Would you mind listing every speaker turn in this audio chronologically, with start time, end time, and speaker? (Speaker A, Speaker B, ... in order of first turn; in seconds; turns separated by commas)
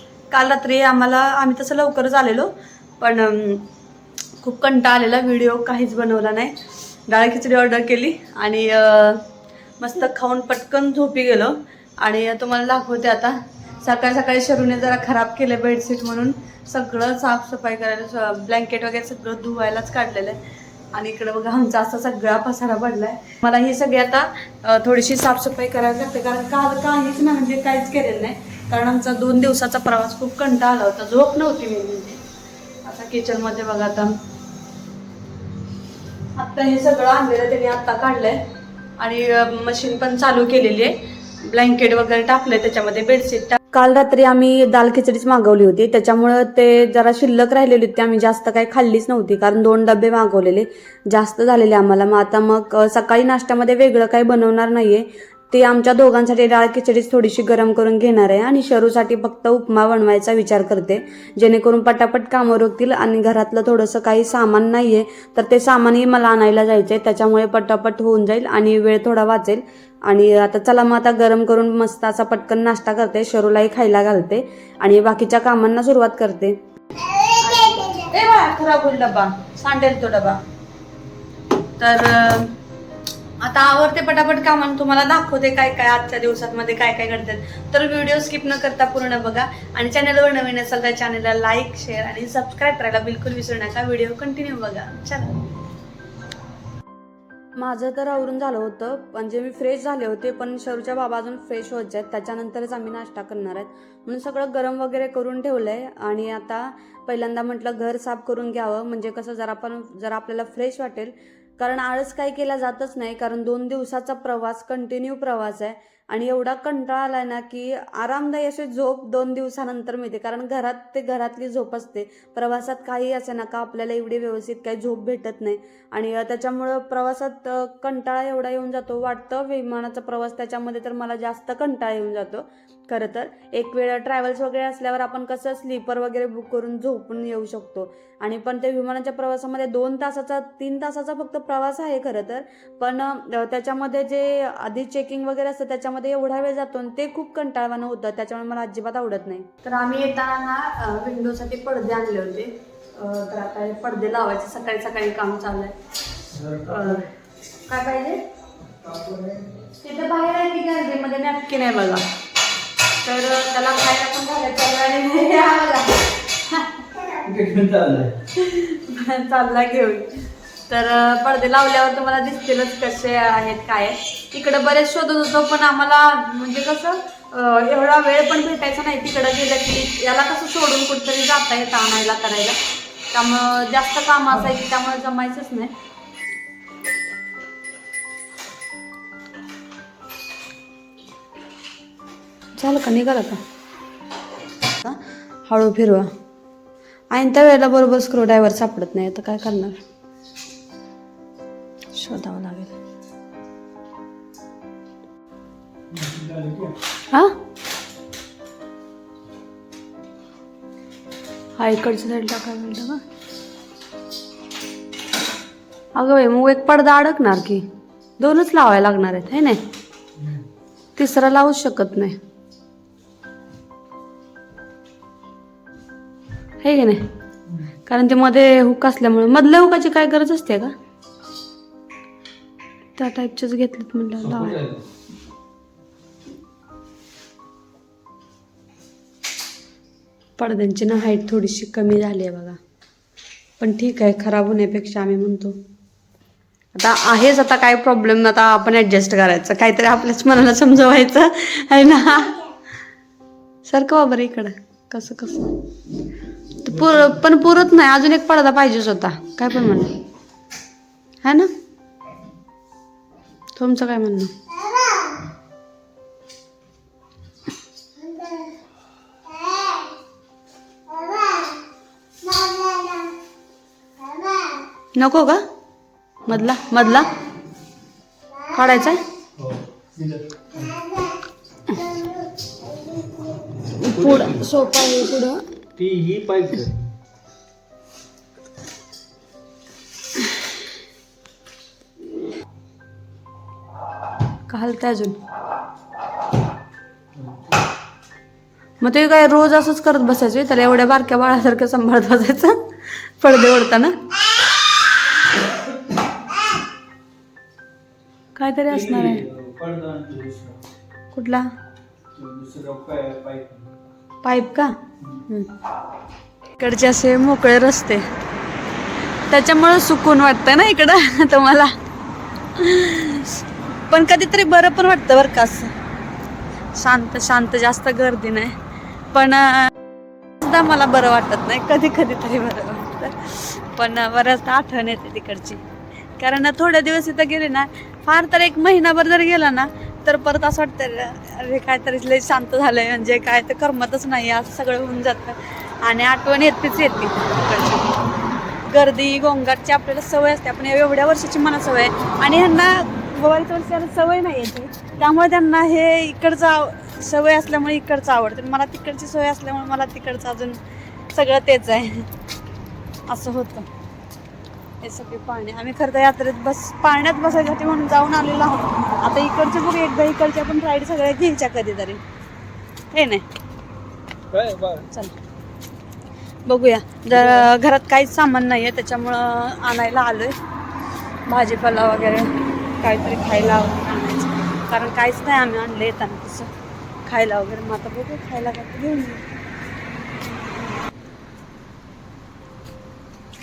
Speaker A: 0.3-3.7, Speaker A: 4.4-9.2, Speaker A: 9.8-20.4, Speaker A: 20.9-32.2, Speaker A: 32.8-34.1, Speaker A: 36.4-38.4, Speaker A: 39.0-76.6, Speaker A: 77.2-80.4, Speaker A: 81.8-82.5, Speaker A: 83.4-95.4, Speaker A: 97.6-155.7, Speaker B: 156.3-157.0, Speaker A: 156.7-157.1, Speaker A: 157.7-158.2, Speaker B: 159.0-159.3, Speaker A: 159.8-162.0, Speaker A: 163.0-166.8, Speaker B: 167.2-168.2, Speaker A: 168.3-182.6, Speaker A: 183.1-185.7, Speaker A: 192.6-193.4, Speaker A: 194.8-196.1, Speaker A: 197.1-199.8, Speaker A: 201.9-202.8, Speaker B: 205.9-206.7, Speaker A: 211.6-213.0, Speaker A: 215.9-217.6, Speaker A: 218.2-219.6, Speaker A: 221.0-222.2, Speaker A: 226.6-227.0, Speaker A: 227.9-230.7, Speaker A: 233.0-234.6, Speaker B: 234.2-234.8, Speaker A: 240.4-242.6, Speaker A: 243.6-245.6, Speaker A: 246.7-252.4, Speaker A: 253.7-255.5, Speaker A: 256.6-259.9, Speaker A: 261.2-261.5, Speaker A: 263.6-264.3, Speaker A: 274.9-275.4, Speaker A: 276.2-277.1, Speaker A: 278.4-279.0, Speaker B: 279.4-280.9, Speaker B: 283.8-284.4, Speaker A: 283.8-285.4, Speaker B: 285.8-286.9, Speaker A: 294.5-295.1, Speaker B: 297.1-297.5, Speaker A: 298.8-302.6, Speaker A: 303.2-303.9, Speaker A: 308.3-309.2, Speaker B: 308.7-310.6, Speaker A: 311.1-311.4, Speaker B: 312.1-313.7, Speaker A: 314.2-314.7, Speaker A: 316.6-318.0, Speaker A: 319.3-321.7, Speaker A: 322.6-325.7, Speaker A: 326.7-328.5, Speaker A: 329.1-329.7, Speaker A: 330.4-335.6, Speaker A: 336.2-347.9, Speaker A: 348.7-360.6, Speaker A: 361.1-362.1, Speaker A: 363.1-363.7, Speaker A: 364.8-372.0, Speaker A: 372.9-373.2, Speaker B: 374.3-374.9, Speaker A: 376.4-380.3, Speaker A: 381.3-386.5, Speaker A: 387.1-389.2